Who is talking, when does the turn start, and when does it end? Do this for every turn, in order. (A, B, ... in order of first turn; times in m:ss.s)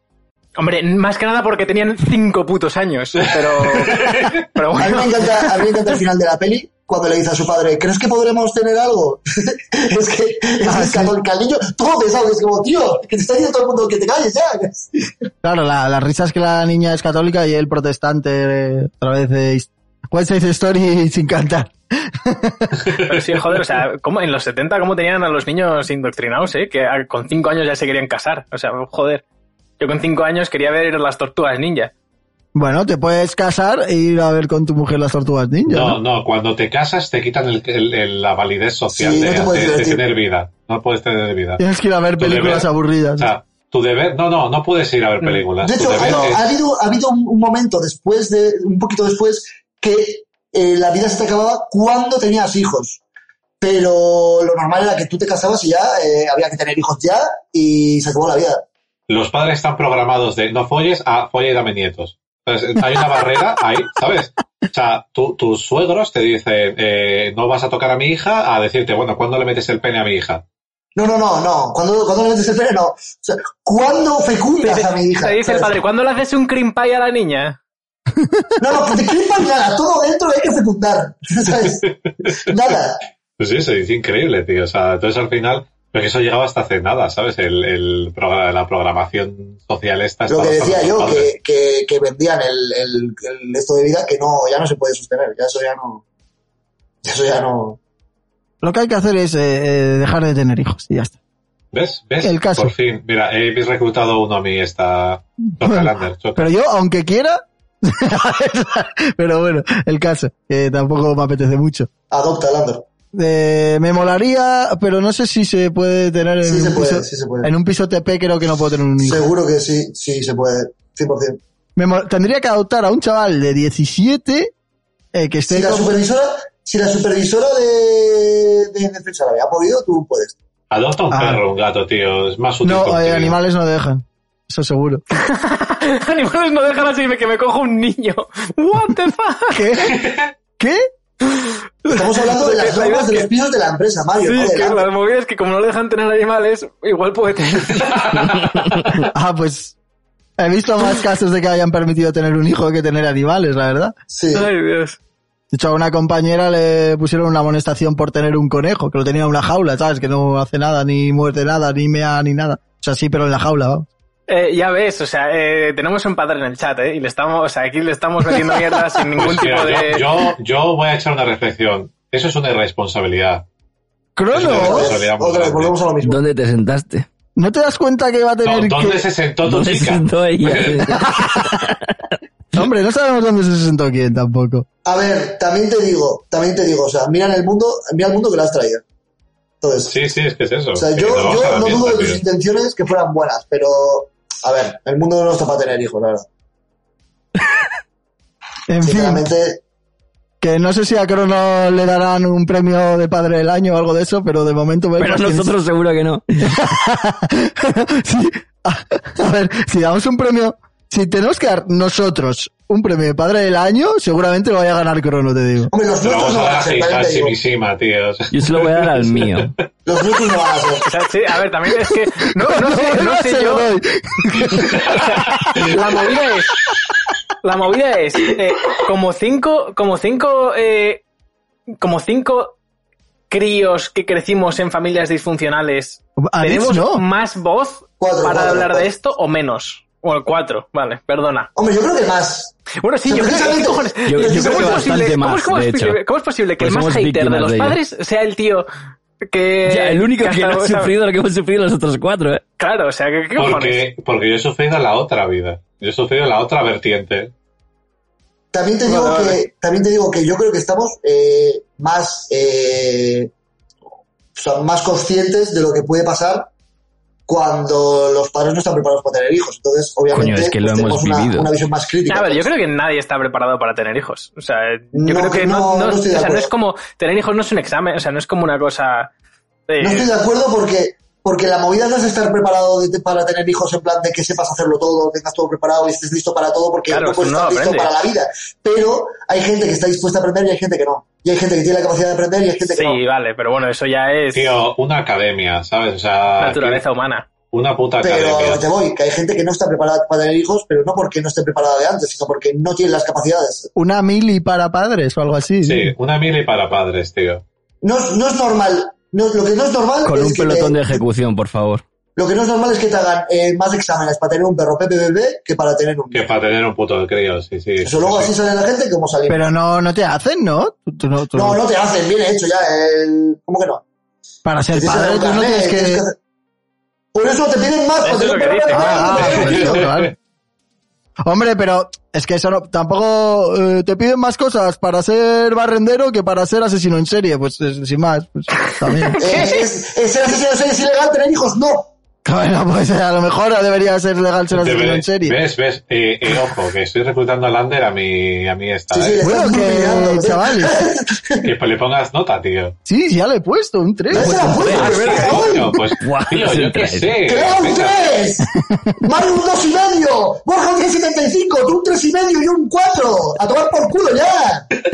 0:00.6-0:05.9 A
0:03.9-0:04.3 B
0:04.8-0:15.3 C
0:10.6-0:11.2 D
0:15.4-0:22.7 D
0:23.1-0:29.2 A
0:29.8-0:31.9 A
0:32.6-0:36.0 D
0:35.7-0:41.6 B
0:38.9-0:40.0 C
0:41.6-0:43.3 D
0:42.2-0:46.5 B
0:45.6-0:53.0 C
0:46.0-0:46.3 D
0:53.6-0:58.6 C
0:59.1-1:10.4 B
1:11.0-1:15.8 C
1:14.6-1:17.6 A
1:18.2-1:18.6 D
1:18.6-1:23.0 C
1:21.5-1:22.8 B
1:23.4-1:31.3 B
1:30.3-1:36.0 C
1:37.0-1:37.8 C
1:38.6-1:41.2 D
1:41.7-1:46.5 B
1:42.2-1:42.7 D
1:45.6-1:51.9 D
1:52.1-1:52.8 C
1:53.1-1:59.2 D
1:56.4-1:57.5 C
1:59.0-2:01.4 C
2:01.8-2:04.5 D
2:05.2-2:06.0 D
2:05.5-2:10.4 C
2:10.7-2:13.4 B
2:11.1-2:11.4 D
2:12.6-2:15.0 D
2:15.1-2:19.6 A
2:19.5-2:20.9 D
2:19.8-2:20.3 B
2:21.2-2:23.3 A
2:21.9-2:24.9 C
2:24.2-2:28.2 A
2:27.9-2:29.0 B
2:29.1-2:29.8 D
2:30.4-2:33.9 D
2:34.1-2:34.5 C
2:34.3-2:35.0 A
2:35.5-2:43.9 D
2:44.3-2:50.1 A
2:49.2-2:53.4 B
2:54.2-2:54.9 D
2:54.3-2:55.8 B
2:54.4-2:56.2 C
2:56.0-2:57.1 E
2:57.4-2:59.0 D
2:58.4-3:00.9 B
2:59.4-3:02.1 E
3:00.9-3:01.7 D
3:02.6-3:04.7 D
3:04.8-3:08.8 C
3:09.6-3:10.0 C
3:09.9-3:12.2 B
3:10.8-3:16.3 C
3:18.7-3:19.2 D
3:18.8-3:19.6 C
3:20.4-3:25.5 D
3:25.0-3:26.2 E
3:26.4-3:35.7 D
3:35.7-3:37.3 C
3:36.0-3:39.5 B
3:38.3-3:39.5 E
3:39.9-3:40.9 C
3:40.8-3:43.7 A
3:42.2-3:45.8 D
3:44.9-3:46.6 A
3:44.9-3:45.6 B
3:47.4-3:51.0 A
3:51.8-3:52.6 A
3:53.3-4:01.5 A
3:56.2-3:57.0 D
3:58.0-3:58.9 C
4:01.6-4:04.9 C
4:02.8-4:08.7 A
4:04.0-4:06.0 E
4:06.6-4:07.8 E
4:09.3-4:10.9 A
4:09.7-4:12.4 E
4:12.6-4:13.8 A
4:13.4-4:17.3 B
4:18.5-4:23.3 C
4:18.8-4:19.4 A
4:24.4-4:26.5 C
4:27.3-4:32.5 C
4:30.1-4:31.5 E
4:32.1-4:39.1 A
4:34.9-4:36.5 C
4:39.7-4:40.1 A
4:39.8-4:53.0 C
4:46.9-4:47.9 A
4:52.7-4:54.5 A
4:54.3-4:56.8 B
4:56.4-4:57.3 A
4:57.5-4:58.6 B
4:58.0-5:03.7 C
5:03.8-5:05.9 D
5:05.6-5:07.4 B
5:07.8-5:11.0 C
5:10.1-5:11.8 E
5:12.2-5:16.3 C
5:16.1-5:18.3 B
5:17.8-5:19.5 C
5:19.3-5:21.6 D
5:21.4-5:23.8 C
5:24.4-5:26.0 D
5:24.7-5:26.2 C
5:27.1-5:29.9 C
5:28.0-5:29.5 A
5:28.7-5:30.1 D
5:29.2-5:30.1 B
5:31.2-5:39.4 D
5:38.9-5:39.6 A
5:39.2-5:41.9 C
5:42.2-5:45.4 D
5:44.5-5:49.3 B
5:48.9-5:51.5 C
5:49.2-5:50.9 D
5:51.4-5:52.8 B
5:52.9-5:54.7 D
5:54.1-5:55.8 C
5:54.2-5:55.3 E
5:54.7-5:55.6 A
5:54.8-5:58.1 B
5:56.0-5:57.2 E
5:57.2-5:58.5 C
5:58.6-5:59.0 D
5:59.0-6:04.7 C